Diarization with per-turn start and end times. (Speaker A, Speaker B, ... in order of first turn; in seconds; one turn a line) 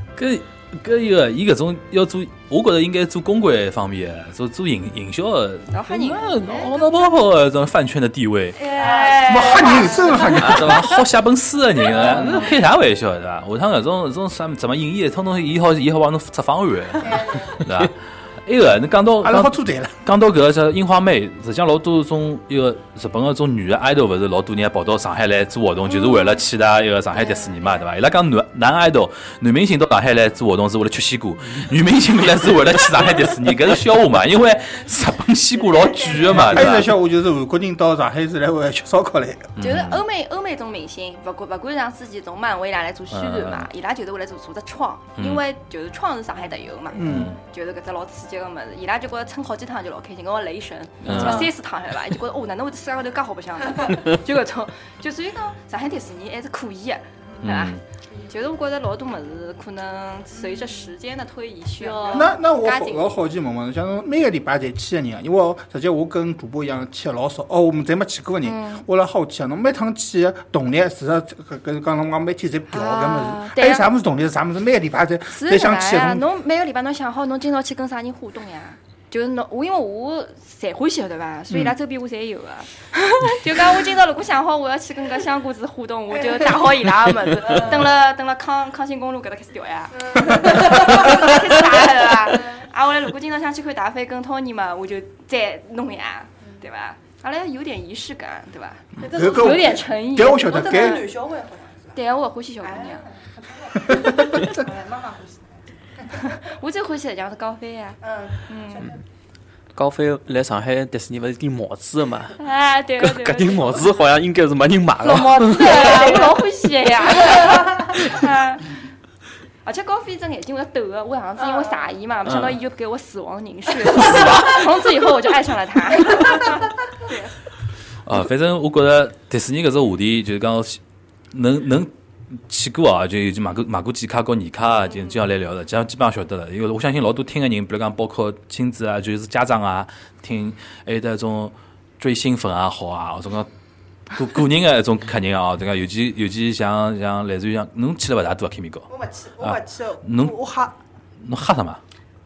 Speaker A: 0.1-8.6
Speaker B: 5.7-6.7
Speaker B: 8.5-10.8
Speaker C: 8.7-10.4
Speaker D: 9.2-10.8
Speaker A: 10.4-36.9
Speaker E: 12.0-12.4
Speaker C: 12.0-12.5
Speaker C: 17.0-17.6
Speaker D: 19.2-20.0
Speaker B: 25.9-26.4
Speaker B: 27.1-27.8
Speaker C: 35.5-36.7
Speaker D: 36.3-39.5
Speaker A: 39.5-40.0
Speaker B: 39.6-63.1
Speaker A: 43.1-43.7
Speaker A: 45.2-45.4
Speaker D: 46.9-47.4
Speaker A: 47.0-47.4
Speaker A: 51.0-51.5
Speaker C: 51.1-51.5
Speaker A: 57.4-57.8
Speaker C: 60.3-60.9
Speaker C: 61.8-62.3
Speaker D: 62.1-76.2
Speaker B: 68.4-68.8
Speaker B: 72.7-73.9
Speaker B: 75.3-101.1
Speaker C: 87.4-87.9
Speaker C: 90.0-92.6
Speaker C: 99.0-102.0
Speaker D: 99.0-101.1
Speaker B: 101.9-103.0
Speaker C: 102.6-106.3
Speaker B: 106.2-108.9
Speaker C: 108.0-109.0
Speaker E: 109.7-112.4
Speaker B: 112.4-113.9
Speaker E: 113.0-116.4
Speaker B: 115.0-118.7
Speaker B: 119.6-127.3
Speaker E: 122.2-122.5
Speaker A: 124.0-124.5
Speaker A: 128.0-130.8
Speaker A: 131.3-143.5
Speaker B: 134.9-135.2
Speaker A: 144.1-150.4
Speaker C: 148.9-150.8
Speaker A: 151.2-151.8